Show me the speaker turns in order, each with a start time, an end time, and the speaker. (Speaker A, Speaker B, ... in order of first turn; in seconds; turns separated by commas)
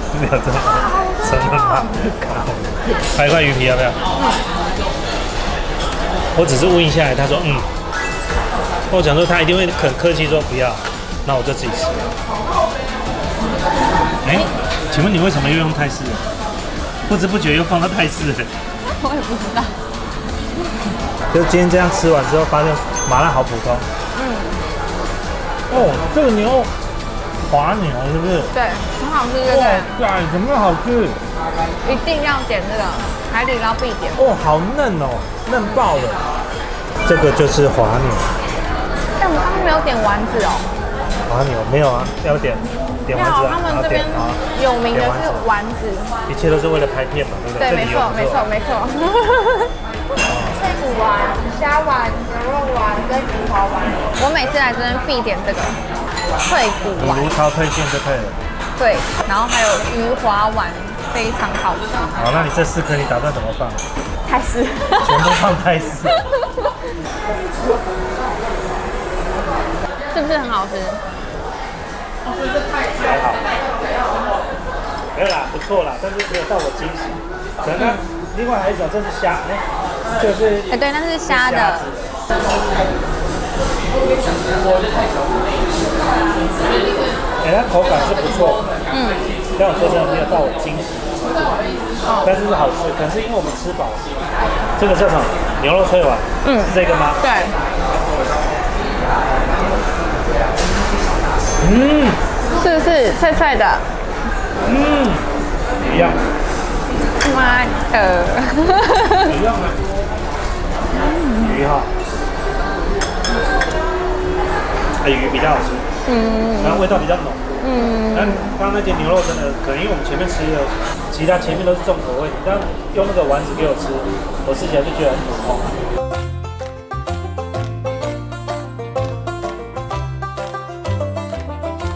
Speaker A: 0.1-4.0, Speaker B: 0.7-1.9, Speaker B: 4.2-4.4, Speaker A: 6.3-7.7, Speaker A: 8.9-12.1, Speaker A: 14.2-16.2, Speaker A: 17.1-18.5, Speaker B: 18.8-19.8, Speaker A: 21.3-23.9, Speaker B: 24.1-24.6, Speaker A: 25.7-26.7, Speaker A: 27.5-28.5, Speaker B: 28.5-29.9, Speaker A: 29.4-31.2, Speaker B: 31.8-34.2, Speaker A: 34.1-36.2, Speaker A: 37.0-38.3, Speaker B: 39.2-40.7, Speaker A: 41.2-44.4, Speaker B: 43.1-46.1, Speaker A: 44.9-45.5, Speaker A: 46.3-48.4, Speaker B: 47.6-49.7, Speaker A: 50.2-50.6, Speaker B: 50.4-55.8, Speaker B: 56.4-57.3, Speaker A: 56.9-58.4, Speaker B: 58.8-62.2, Speaker A: 62.1-63.8, Speaker B: 64.2-65.5, Speaker A: 65.0-66.2, Speaker B: 66.1-66.7, Speaker B: 70.1-71.0, Speaker A: 73.0-73.4, Speaker A: 75.1-79.6, Speaker B: 77.7-78.1, Speaker A: 80.2-82.1, Speaker B: 80.7-81.9, Speaker A: 87.4-88.6, Speaker B: 88.9-89.3, Speaker A: 89.5-91.6, Speaker B: 92.0-92.3, Speaker A: 92.2-94.2, Speaker A: 94.8-97.2, Speaker B: 96.4-97.5, Speaker A: 101.6-102.2, Speaker B: 102.6-103.9, Speaker A: 104.6-105.3, Speaker A: 105.8-106.2, Speaker B: 107.2-109.3, Speaker A: 109.2-109.9, Speaker B: 110.9-111.6, Speaker A: 111.4-111.9, Speaker A: 115.0-115.9, Speaker B: 116.0-116.9, Speaker A: 116.6-125.7, Speaker B: 117.6-118.5